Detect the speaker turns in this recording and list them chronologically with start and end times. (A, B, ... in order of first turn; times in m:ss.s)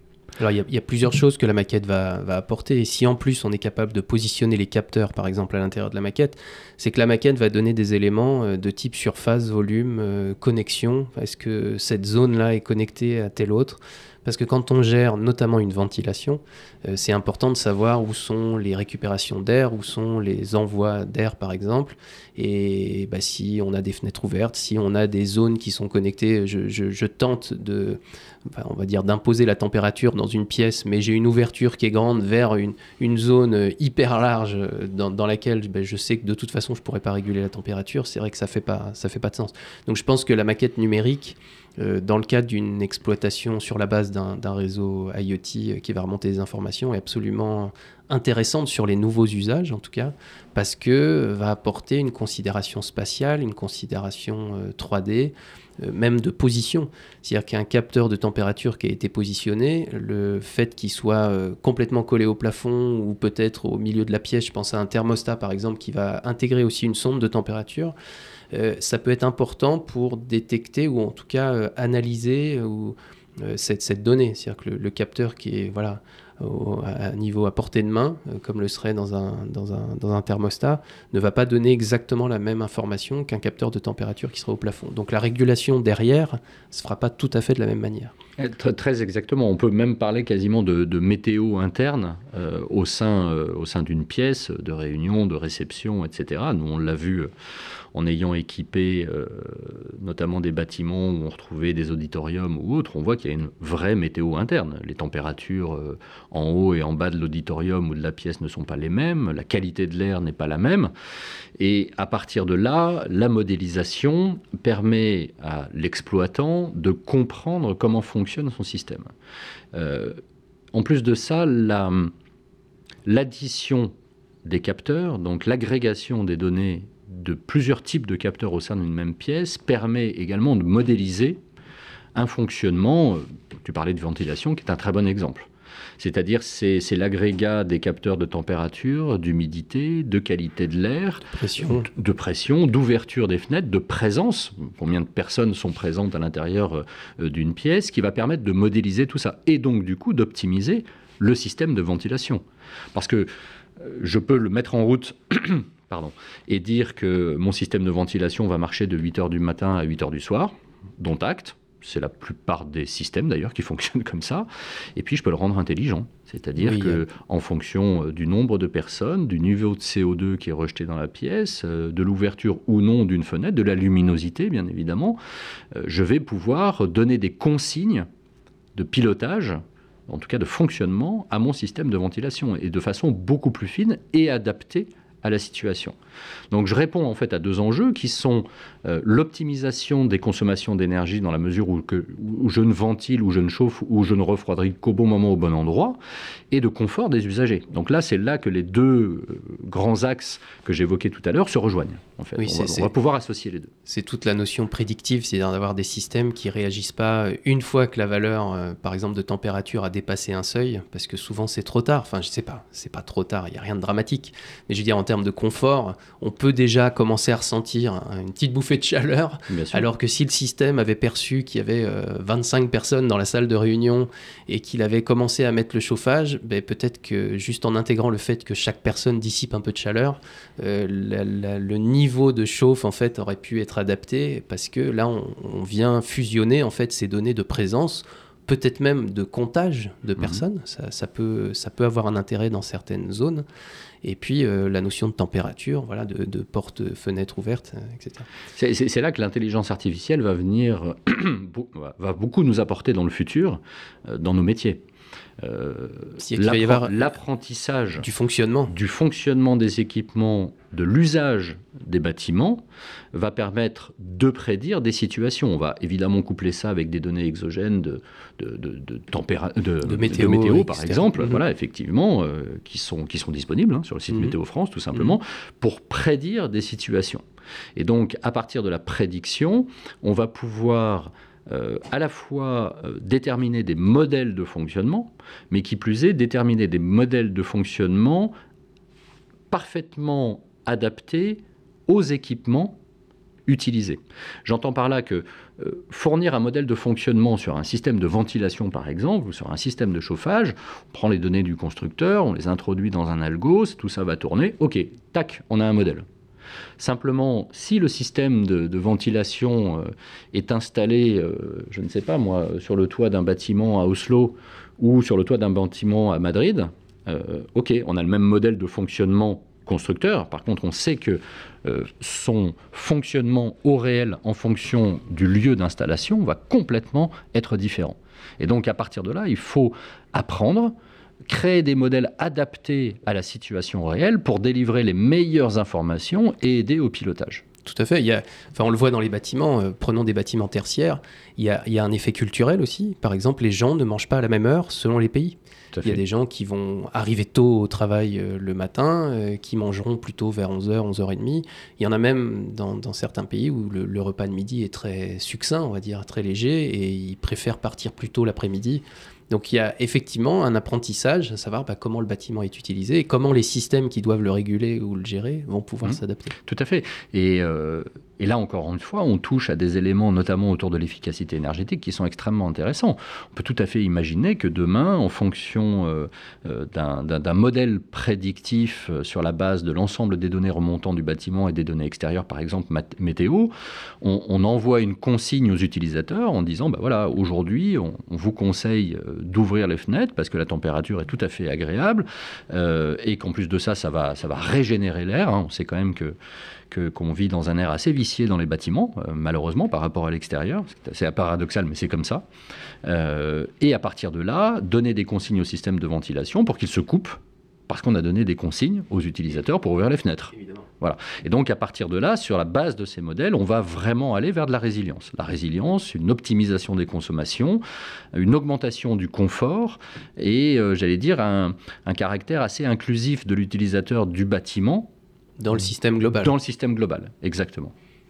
0:00.4-1:07.9 A
1:08.5-1:28.1 A
1:28.4-1:37.3 B
1:37.9-1:50.9 B
1:51.6-1:59.1 B
1:59.7-2:00.2 B
2:00.7-2:02.1 B
2:03.0-2:03.9 B
2:04.4-2:11.4 B
2:12.1-2:32.4 B
2:21.3-2:21.9 A
2:32.9-2:55.2 B
2:46.6-2:47.0 A
2:55.7-2:58.1 B
2:58.7-3:06.0 B
3:06.5-3:16.0 B
3:16.5-3:23.7 B
3:22.4-3:22.9 A
3:23.8-4:03.4 A
3:39.5-3:39.9 B
4:04.0-4:08.3 A
4:08.6-4:14.8 B
4:15.4-4:18.0 B
4:16.2-4:17.1 A
4:18.0-4:18.7 A
4:18.7-4:37.2 B
4:29.8-4:31.4 A
4:37.8-4:48.3 B
4:49.5-4:52.8 B
4:53.4-5:06.0 B
5:06.8-5:30.7 B
5:31.3-5:37.4 B
5:37.6-6:06.4 A
5:45.7-5:46.0 B
6:05.8-6:36.2 B
6:36.7-6:42.2 B
6:42.8-6:57.6 B
6:58.1-7:04.9 B
7:05.4-7:06.3 A
7:06.2-7:07.7 B